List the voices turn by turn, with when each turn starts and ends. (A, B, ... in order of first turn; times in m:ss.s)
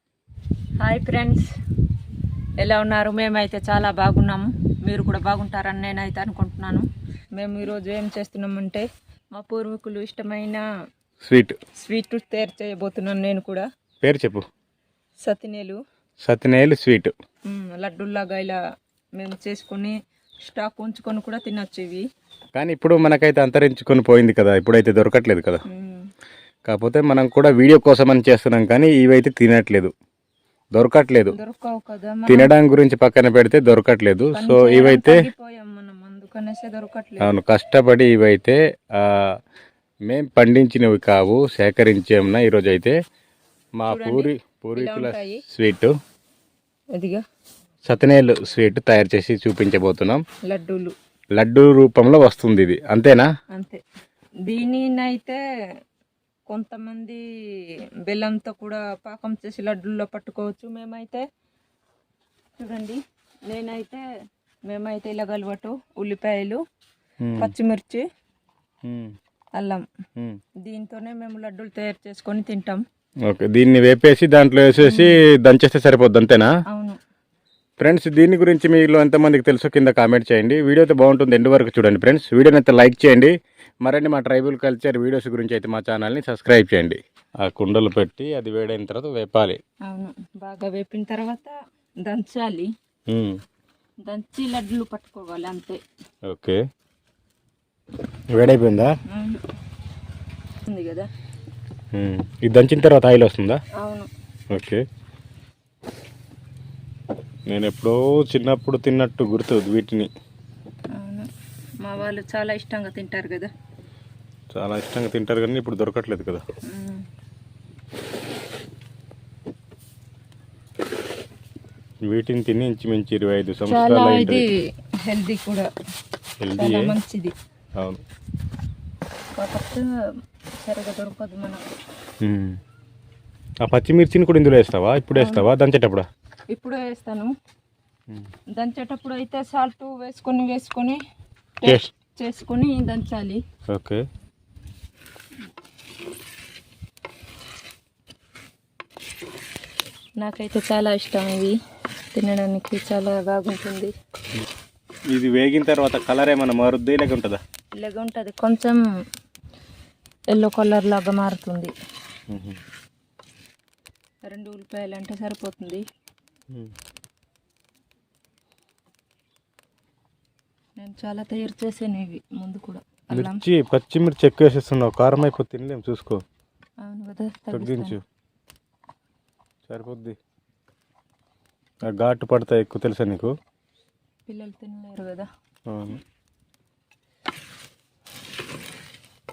0:00.8-0:01.5 A
0:02.6-0:06.8 A
0:07.4-0:10.6 A
0:11.2-0:11.6 B
0:11.8-0:13.7 A
0:14.0-0:14.4 B
0:15.2-0:15.8 A
0:16.2-0:17.1 B
0:17.5-0:18.6 A
0:19.2-0:19.9 A
0:20.5-0:22.0 A
0:22.6-0:25.6 B
0:25.7-0:26.1 A
0:26.7-0:29.9 B
0:30.8-0:31.3 B
0:31.3-0:32.5 A
0:32.3-0:35.3 B
0:34.3-0:37.3 A
0:37.2-0:39.3 B
0:40.1-0:43.0 B
0:43.8-0:45.9 B
0:43.9-0:45.4 A
0:47.0-0:47.2 A
0:47.9-0:50.2 B
0:50.4-0:50.9 A
0:51.4-0:53.3 B
0:53.5-0:53.8 A
0:54.4-0:55.4 A
0:56.5-0:57.2 A
0:58.1-1:01.2 A
1:02.6-1:04.0 A
1:04.7-1:06.6 A
1:07.2-1:07.5 B
1:07.4-1:08.0 A
1:08.8-1:09.1 B
1:09.6-1:09.8 A
1:10.6-1:12.8 A
1:13.2-1:16.5 B
1:14.8-1:15.2 A
1:16.7-1:17.0 A
1:17.8-1:23.3 B
1:23.8-1:29.6 B
1:29.9-1:31.5 A
1:32.0-1:32.7 A
1:33.1-1:33.4 B
1:34.0-1:35.8 A
1:36.3-1:36.6 B
1:38.3-1:38.9 B
1:39.1-1:39.4 A
1:40.6-1:41.1 A
1:41.9-1:43.6 B
1:43.8-1:44.1 A
1:44.5-1:44.8 B
1:47.5-1:50.1 B
1:50.9-1:51.3 A
1:51.8-1:53.5 A
1:54.5-1:56.4 B
1:56.7-1:57.0 A
2:02.1-2:04.4 B
2:03.7-2:05.7 A
2:06.4-2:06.9 B
2:06.5-2:07.3 A
2:09.4-2:09.9 A
2:10.6-2:11.6 A
2:12.2-2:12.6 B
2:13.6-2:16.1 B
2:15.1-2:15.4 A
2:16.5-2:17.3 A
2:18.6-2:21.0 A
2:21.6-2:23.4 A
2:23.7-2:24.0 B
2:30.2-2:31.5 A
2:32.1-2:33.9 A
2:35.1-2:37.4 B
2:37.8-2:38.8 A
2:40.3-2:41.7 A
2:42.3-2:42.6 B
2:44.3-2:45.8 A
2:50.8-2:53.4 A
2:53.1-2:56.2 B
2:56.8-2:58.0 A
2:57.5-2:58.0 B
2:59.7-3:00.2 B
3:01.9-3:03.3 B
3:04.3-3:05.3 A
3:05.7-3:06.0 B